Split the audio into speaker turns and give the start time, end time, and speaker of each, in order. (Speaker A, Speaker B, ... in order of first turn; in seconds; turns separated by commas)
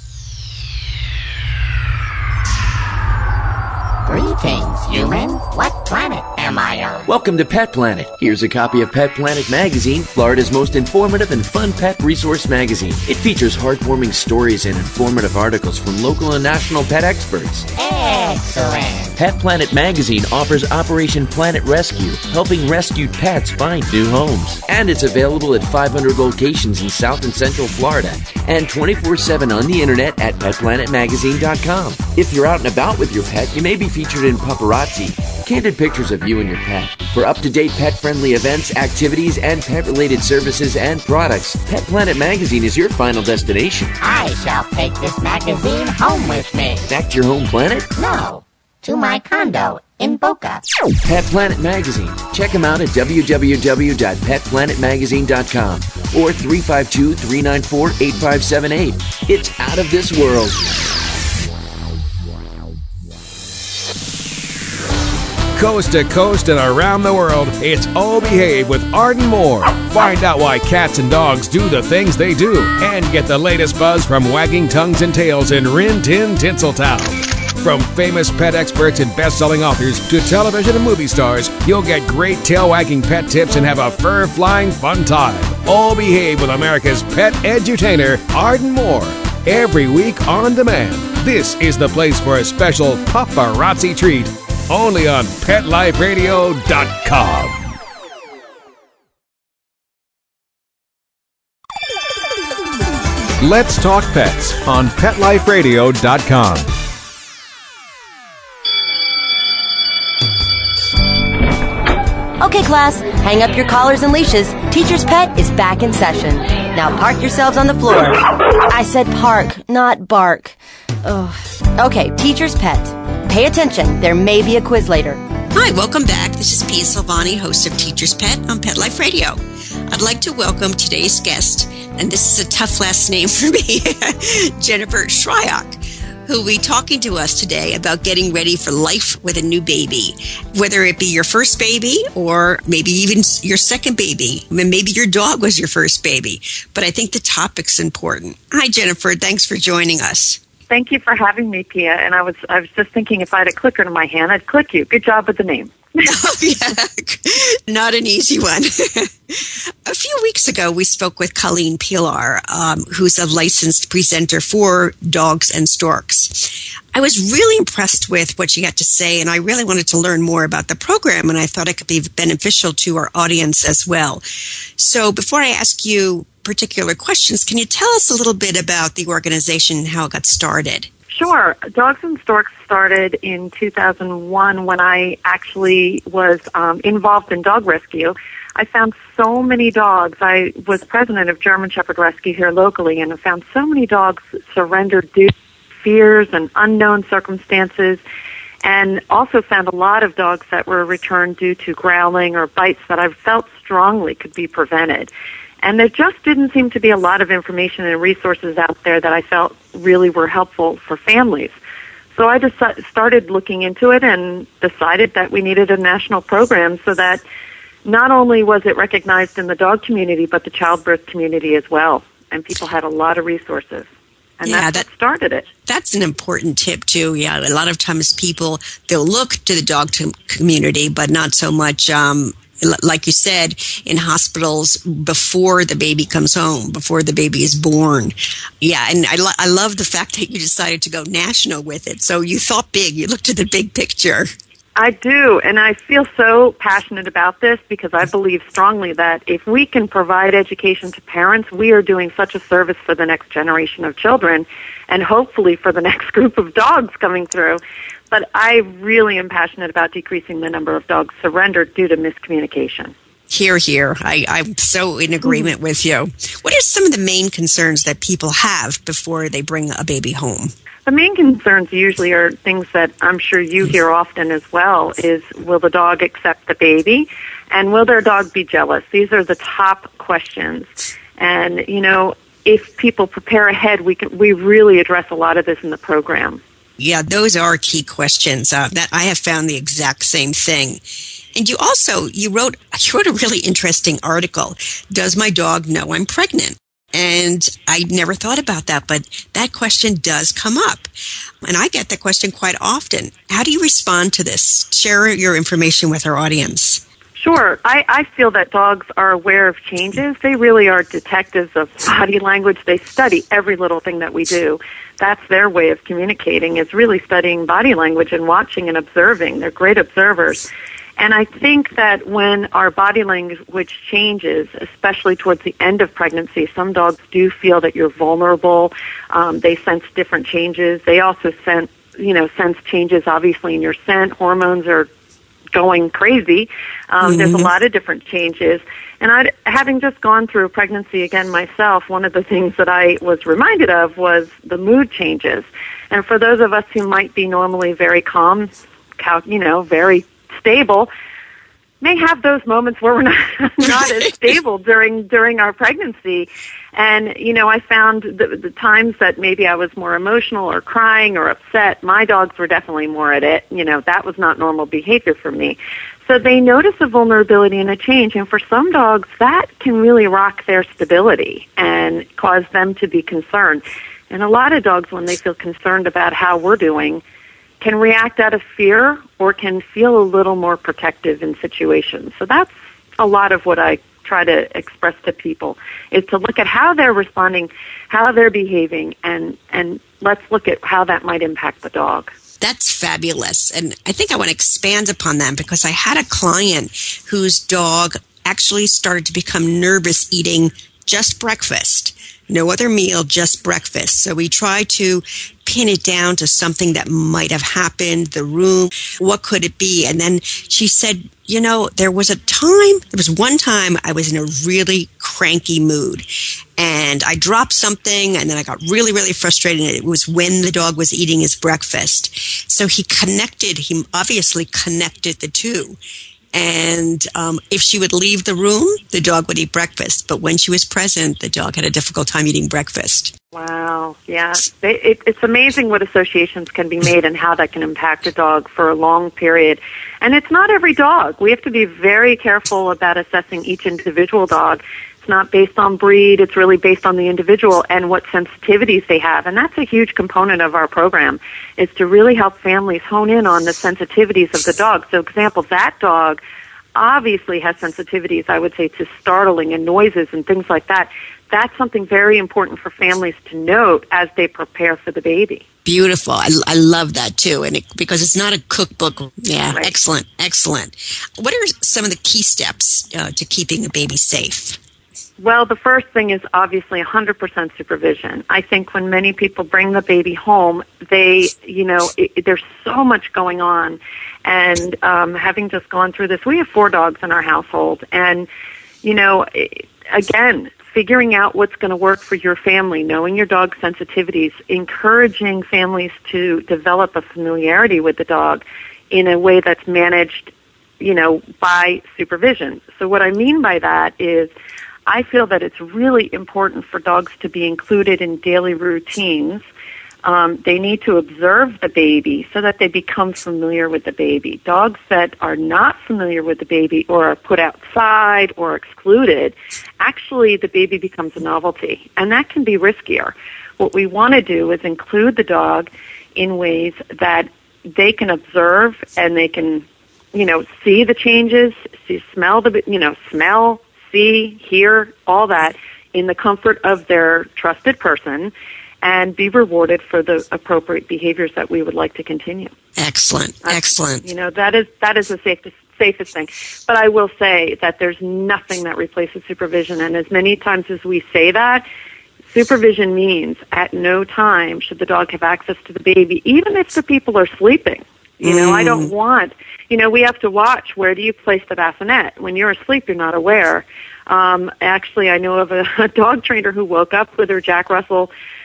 Speaker A: 4.1-7.0, Speaker B: 7.1-17.7, Speaker A: 17.7-19.1, Speaker B: 19.2-44.0, Speaker A: 44.0-46.8, Speaker B: 46.9-47.9, Speaker A: 48.0-50.6, Speaker B: 51.0-60.7, Speaker C: 65.5-97.7, Speaker C: 103.4-106.7, Speaker D: 112.4-125.2, Speaker E: 125.5-150.4, Speaker F: 150.7-156.1, Speaker E: 156.0-174.2, Speaker E: 174.8-180.9, Speaker F: 181.1-195.3, Speaker F: 195.8-198.0, Speaker F: 198.6-205.1, Speaker F: 205.6-211.5, Speaker F: 212.2-217.2, Speaker F: 217.8-223.9, Speaker F: 224.4-225.5, Speaker E: 224.4-224.8, Speaker E: 225.7-244.3, Speaker F: 244.8-262.9, Speaker E: 263.3-270.5, Speaker F: 270.9-286.4, Speaker E: 286.8-290.8, Speaker E: 291.3-300.9, Speaker E: 301.4-306.8, Speaker F: 307.2-320.5, Speaker F: 321.0-334.9, Speaker F: 335.5-350.9, Speaker E: 337.0-337.5, Speaker F: 351.8-377.0, Speaker E: 353.6-353.9, Speaker F: 377.6-392.1, Speaker E: 392.4-425.8, Speaker E: 426.3-433.1, Speaker F: 433.3-456.2, Speaker F: 456.7-465.4, Speaker E: 465.6-474.6, Speaker F: 475.2-488.3, Speaker F: 488.8-504.3, Speaker F: 504.9-509.4, Speaker F: 510.0-542.5, Speaker E: 542.8-544.1, Speaker F: 543.4-551.6, Speaker F: 552.3-568.1, Speaker E: 558.2-558.9